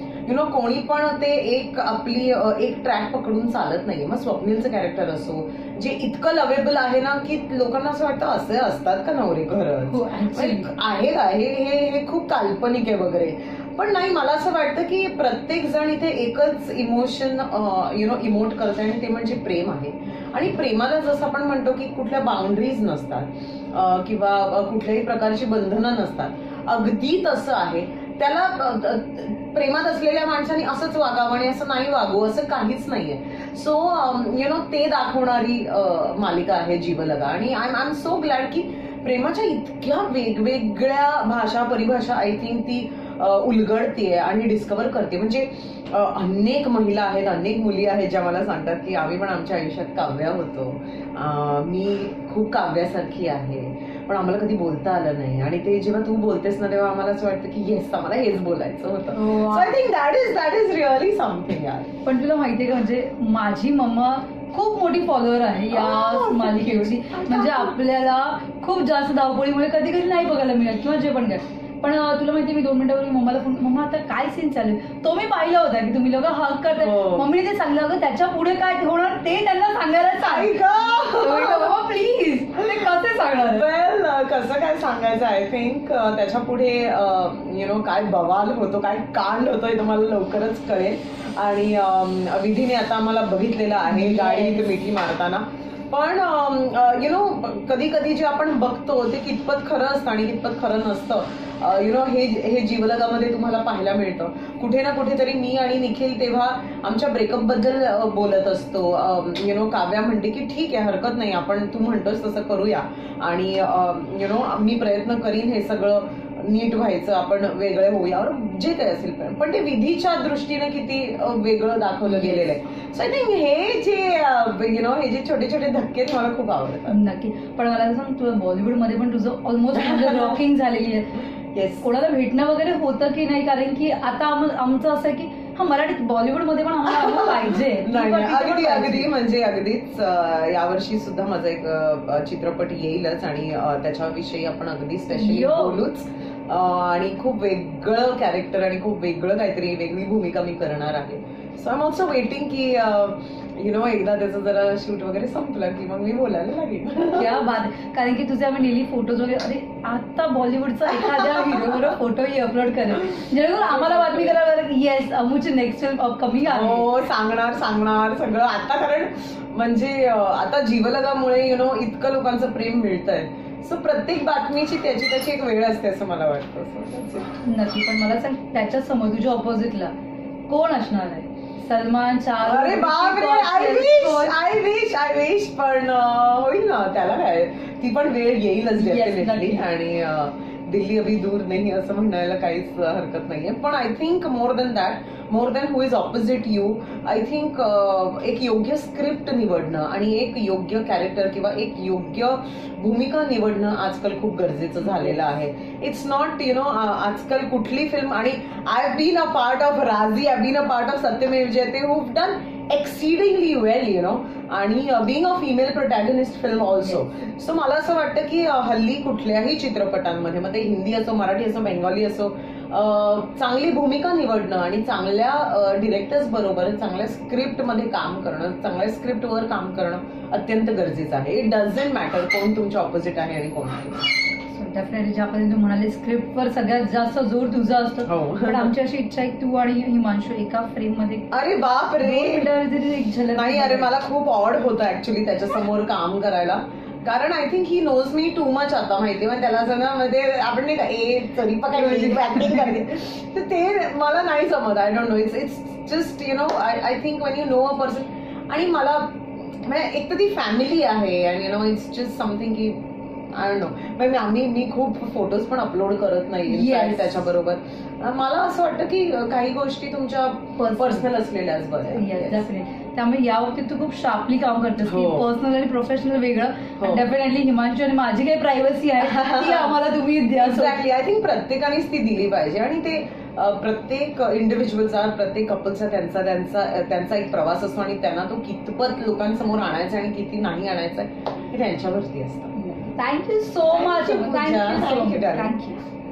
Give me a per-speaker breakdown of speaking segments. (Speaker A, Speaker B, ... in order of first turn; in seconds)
Speaker A: 0.2-61.9, 65.7-67.8, 76.8-77.3, 80.2-81.7, 83.3-126.9, 129.7-130.4, 131.5-131.8, 136.9-157.4, 160.9-161.8, 163.2-164.4, 166.4-177.4, 182.4-234.1, 238.1-238.7, 241.3-242.5, 243.3-272.4, 274.8-275.2, 276.8-277.0, 279.0-279.7, 280.4-292.5, 293.7-295.5
Speaker B: 9.9-10.7, 59.1-59.8, 62.0-83.7, 93.9-94.8, 122.0-122.4, 126.9-131.2, 131.8-139.1, 145.1-145.8, 157.2-166.9, 177.4-179.9, 180.5-184.4, 188.8-189.6, 234.5-241.3, 242.0-243.9, 251.7-252.8, 266.5-267.1, 270.6-271.1, 271.9-280.8, 292.5-295.8